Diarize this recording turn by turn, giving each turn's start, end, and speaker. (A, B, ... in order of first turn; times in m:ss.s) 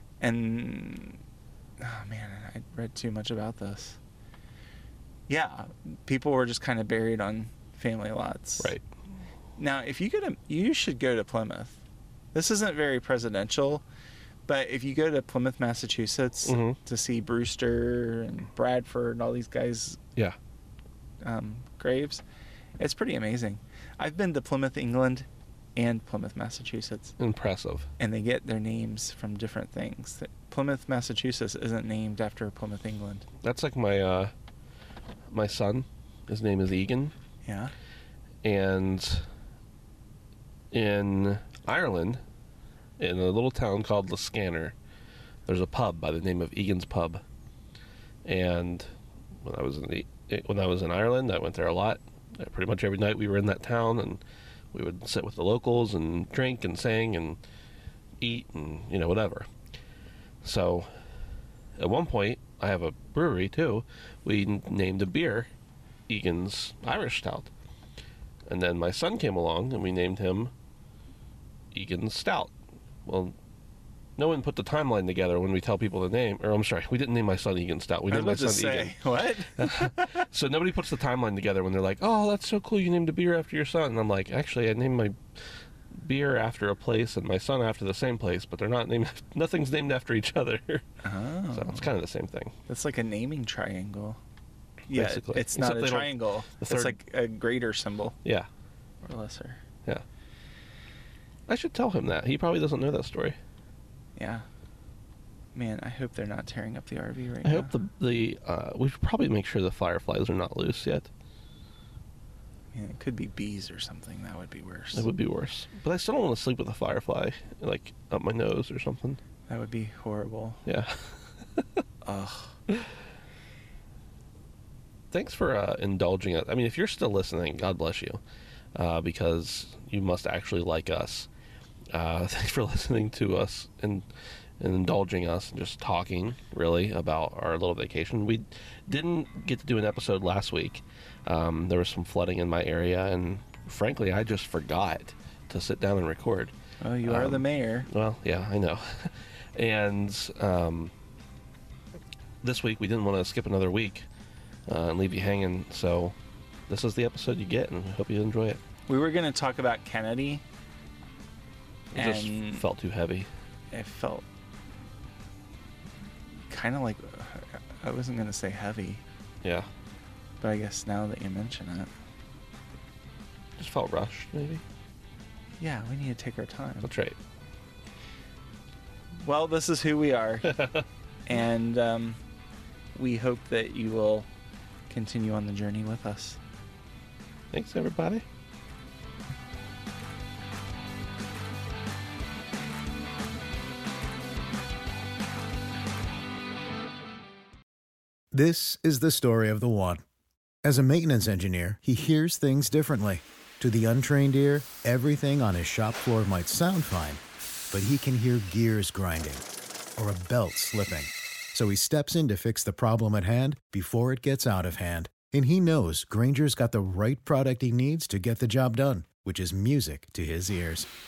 0:00.2-0:01.2 A
0:01.8-0:04.0 A
0:05.3-0:08.8 A
0:09.6-0:11.8 A
0:12.3-0:13.8 A
0:14.5-0:20.0 A
0:16.4-0:16.8 B
0:21.2-0:22.2 A
0:22.8-0:27.2 A
0:27.2-0:27.9 B
0:28.0-0:33.3 A
0:33.4-0:34.3 B
0:35.3-0:37.1 B
0:37.4-0:37.7 A
0:38.4-0:39.3 B
0:40.7-0:42.2 B
0:43.0-0:44.8 B
0:45.5-0:47.2 B
0:48.2-0:48.9 B
0:49.4-0:54.2 B
0:54.7-0:57.4 B
0:58.2-0:59.5 B
1:00.4-1:00.9 B
1:01.8-1:05.5 B
1:06.1-1:07.5 B
1:08.5-1:10.5 B
1:11.7-1:12.5 B
1:13.0-1:13.4 B
1:14.2-1:19.0 B
1:18.1-1:20.2 A
1:19.6-1:25.2 B
1:25.9-1:31.0 B
1:31.0-1:31.9 A
1:31.5-1:32.5 B
1:32.7-1:34.2 A
1:34.9-1:38.2 A
1:34.9-1:37.0 B
1:39.0-1:39.6 A
1:41.5-1:43.4 B
1:44.2-1:44.4 A
1:45.5-1:47.7 A
1:47.4-1:51.1 B
1:52.7-1:55.1 A
1:54.9-1:59.2 B
1:59.5-2:00.6 A
2:00.7-2:01.6 B
2:02.0-2:02.6 A
2:05.1-2:08.2 B
2:08.8-2:11.3 B
2:11.9-2:14.1 B
2:14.6-2:26.5 B
2:26.8-2:27.9 A
2:27.0-2:30.9 B
2:32.4-2:34.0 B
2:34.7-2:36.2 B
2:36.7-2:38.6 B
2:38.9-2:40.4 A
2:41.9-2:43.3 B
2:42.0-2:42.7 A
2:43.7-2:44.3 A
2:46.5-2:49.0 A
2:49.4-2:49.7 B
2:50.4-2:51.9 A
2:53.6-2:54.6 B
2:55.6-2:56.9 A
2:56.8-2:57.2 B
2:59.2-3:00.7 A
3:01.3-3:02.2 A
3:02.9-3:04.3 A
3:04.9-3:06.4 A
3:07.5-3:08.2 B
3:18.3-3:20.0 C
3:20.6-3:27.2 C
3:27.7-3:29.4 C
3:30.0-3:40.9 C